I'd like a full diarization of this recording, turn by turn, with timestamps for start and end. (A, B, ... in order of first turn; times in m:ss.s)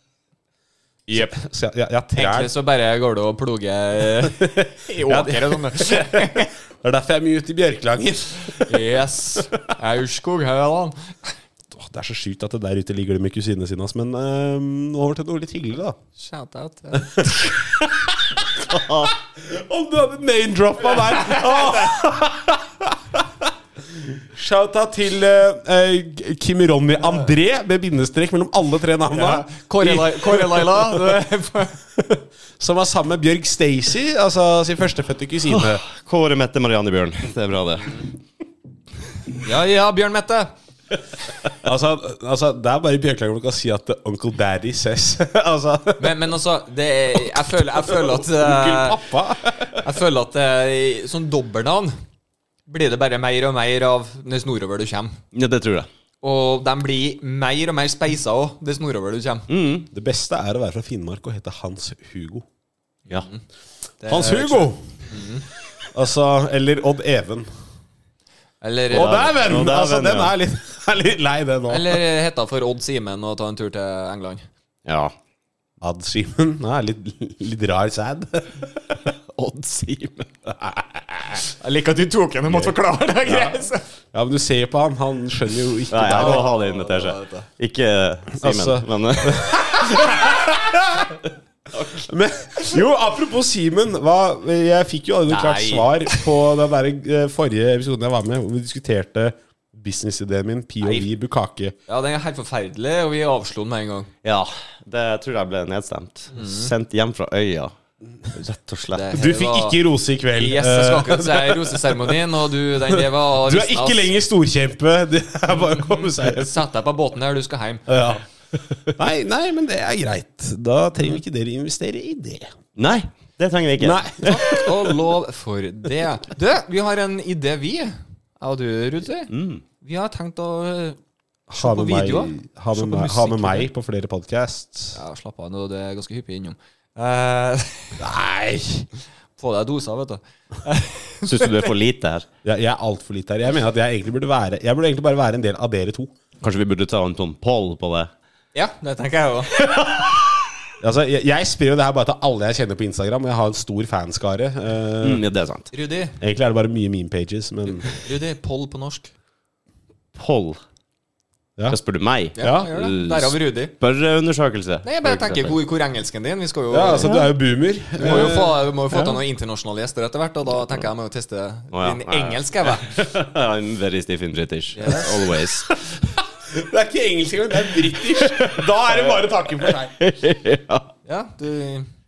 0:01.1-0:02.5 A
0:02.2-0:06.5 B
0:04.2-0:08.8 A
0:08.6-0:11.3 B
0:11.7-0:16.0 A
0:16.2-0:17.5 B
0:17.2-0:18.1 A
0:18.6-0:19.1 C
0:19.3-0:31.1 A
0:29.1-0:31.8 B
0:32.0-0:35.8 A
0:35.5-0:38.0 C
0:39.4-0:40.5 B
0:41.6-0:46.1 A
0:46.0-0:49.0 B
0:47.8-0:49.8 A
0:49.8-0:51.9 B
0:52.7-0:55.2 B
0:55.3-0:55.9 C
0:56.2-0:59.5 B
0:59.5-0:59.9 C
0:59.9-1:02.4 A
1:03.1-1:03.4 B
1:04.0-1:05.4 B
1:04.1-1:04.8 A
1:05.9-1:07.5 A
1:08.6-1:09.3 B
1:08.9-1:10.3 C
1:08.9-1:12.0 A
1:11.7-1:14.4 B
1:14.8-1:15.1 C
1:15.8-1:19.0 A
1:19.3-1:20.4 C
1:20.6-1:21.4 A
1:21.5-1:23.8 B
1:22.5-1:22.7 A
1:24.1-1:26.5 A
1:25.9-1:30.4 C
1:26.1-1:27.4 B
1:28.4-1:31.2 A
1:31.7-1:32.0 C
1:32.0-1:41.7 A
1:35.3-1:36.3 B
1:40.8-1:41.1 B
1:41.9-1:44.1 B
1:44.2-1:47.7 C
1:46.3-1:46.7 B
1:48.3-1:49.1 C
1:48.9-1:49.8 B
1:49.1-1:52.2 A
1:50.4-1:54.1 B
1:52.9-1:56.6 A
1:55.7-1:57.9 B
1:57.9-1:58.2 A
1:58.9-2:02.5 A
2:02.8-2:04.0 C
2:03.8-2:04.9 A
2:04.2-2:11.0 B
2:09.3-2:09.6 C
2:11.5-2:15.0 A
2:11.5-2:13.7 B
2:14.9-2:18.0 B
2:18.0-2:18.9 A
2:19.4-2:21.7 B
2:21.3-2:22.2 C
2:22.4-2:26.1 A
2:26.4-2:28.1 C
2:28.5-2:29.6 B
2:29.6-2:30.3 C
2:30.8-2:35.2 A
2:35.0-2:35.7 C
2:35.7-2:36.2 B
2:36.2-2:37.9 A
2:37.9-2:39.1 B
2:40.1-2:40.6 C
2:41.7-2:45.6 C
2:42.4-2:43.7 B
2:42.4-2:42.7 A
2:44.8-2:47.3 B
2:46.7-2:49.0 A
2:48.0-2:52.9 B
2:51.7-2:55.8 C
2:54.7-2:55.4 B
2:56.5-2:59.9 A
2:58.0-3:00.9 C
3:01.0-3:01.9 B